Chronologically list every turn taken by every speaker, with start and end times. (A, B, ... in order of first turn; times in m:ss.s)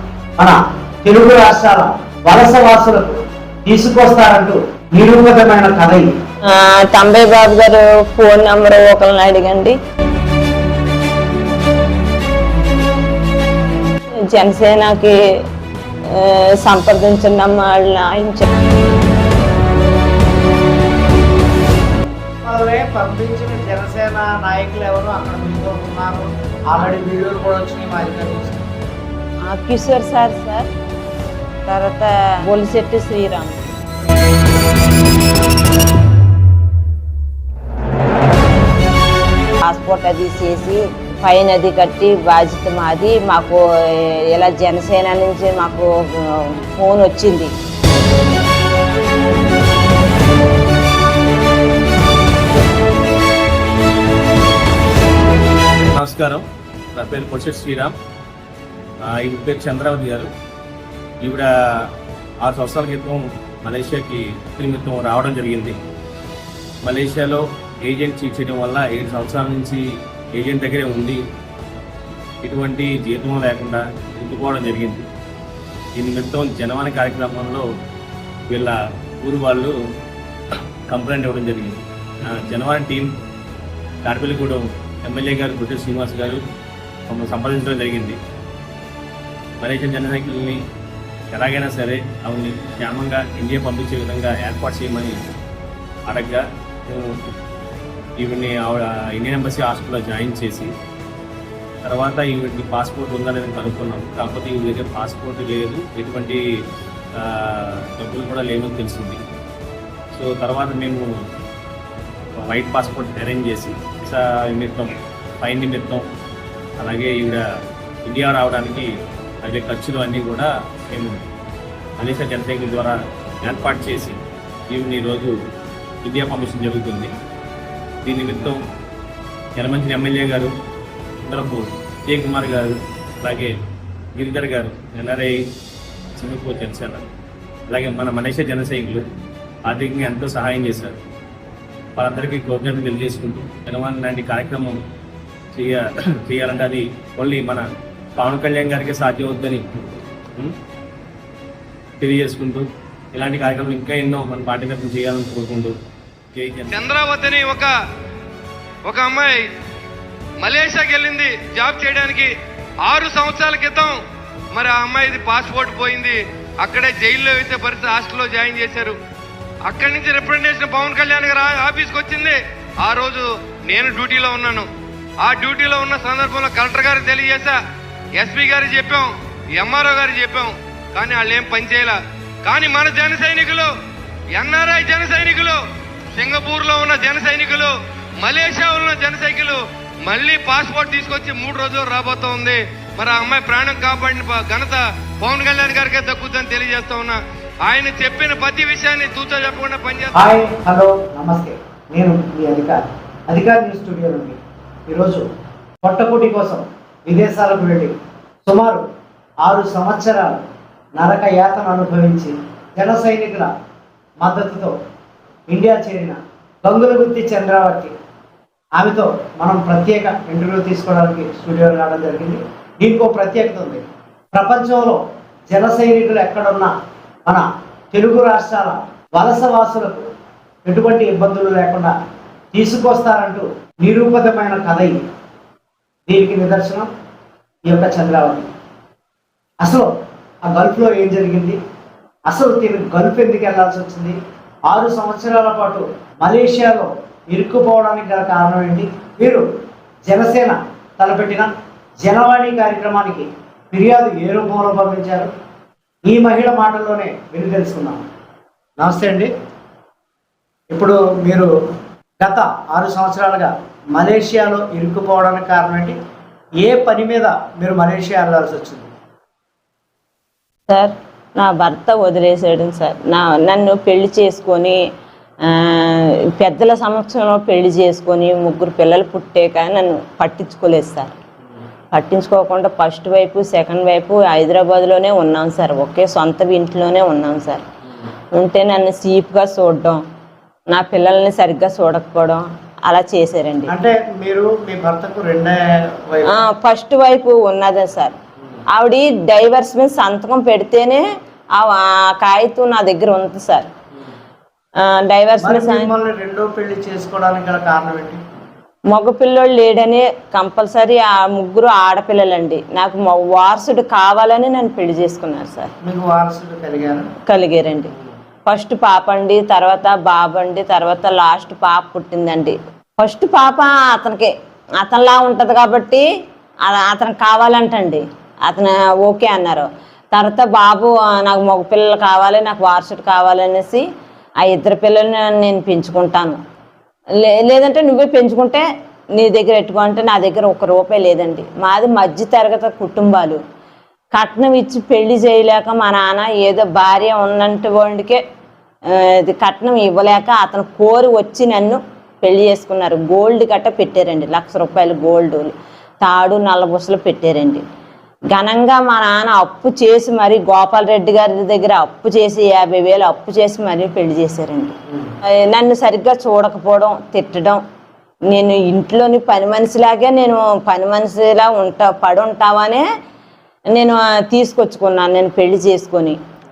0:00.4-0:06.1 A
0:06.5-0:09.8 B
0:14.1-0:15.2 B
0:16.1-0:18.5 B
0:22.4-0:28.7 A
0:29.5-0:30.7 B
0:31.7-0:33.6 B
0:39.6-0:47.5 B
0:55.8-0:58.0 C
0:59.0-1:00.3 C
1:01.2-1:01.9 C
1:02.4-1:05.8 C
1:06.8-1:09.8 C
1:10.3-1:11.2 C
1:12.4-1:15.0 C
1:16.0-1:17.7 C
1:18.5-1:19.7 C
1:20.9-1:23.1 C
1:24.0-1:26.4 C
1:27.1-1:28.2 C
1:29.6-1:30.6 C
1:31.3-1:35.2 C
1:36.1-1:37.2 C
1:38.2-1:40.7 C
1:41.8-1:46.4 C
1:47.1-1:49.2 C
1:50.1-1:51.0 C
1:52.4-1:56.0 C
1:56.8-1:57.4 C
1:58.0-1:58.9 C
1:59.4-2:01.2 C
2:02.0-2:05.3 C
2:06.0-2:07.1 C
2:08.0-2:08.6 C
2:09.6-2:10.5 C
2:11.2-2:13.5 C
2:14.2-2:15.4 C
2:16.2-2:17.1 C
2:17.7-2:19.1 C
2:19.7-2:21.0 C
2:22.0-2:24.8 C
2:25.5-2:30.6 C
2:32.0-2:35.8 C
2:36.3-2:36.8 C
2:36.7-2:37.8 D
2:38.8-2:39.5 D
2:40.4-2:44.0 D
2:44.5-2:49.0 D
2:49.6-2:54.7 D
2:55.2-2:57.6 D
2:58.2-3:03.7 D
3:04.3-3:05.6 D
3:06.2-3:20.3 D
3:20.2-3:25.2 A
3:25.8-3:27.9 A
3:28.5-3:28.8 A
3:29.4-3:30.4 A
3:31.0-3:33.5 A
3:34.2-3:34.8 A
3:35.5-3:37.9 A
3:38.8-3:46.7 A
3:47.2-3:50.1 A
3:50.6-3:51.9 A
3:52.5-3:55.0 A
3:56.1-3:56.9 A
3:57.7-3:58.5 A
3:59.6-3:59.9 A
4:00.5-4:01.6 A
4:02.3-4:04.2 A
4:04.7-4:09.4 A
4:10.1-4:15.3 A
4:16.1-4:18.0 A
4:18.8-4:19.3 A
4:20.7-4:21.5 A
4:22.2-4:26.0 A
4:26.6-4:28.9 A
4:30.7-4:34.8 B
4:35.5-4:41.1 B
4:41.9-4:47.6 B
4:48.3-4:50.0 B
4:50.7-4:53.7 B
4:53.7-4:56.4 A
4:56.3-4:58.2 B
4:58.7-5:01.0 B
5:01.6-5:03.7 B
5:04.8-5:05.9 B
5:05.4-5:08.2 A
5:08.9-5:15.7 B
5:15.8-5:17.1 A
5:17.3-5:17.9 B
5:18.4-5:26.1 B
5:26.7-5:33.8 B
5:34.4-5:36.4 B
5:37.2-5:38.6 B
5:39.2-5:43.4 B
5:44.2-5:48.2 B
5:48.9-5:57.6 B
5:58.3-6:07.6 B
6:08.3-6:12.8 B
6:13.7-6:16.2 B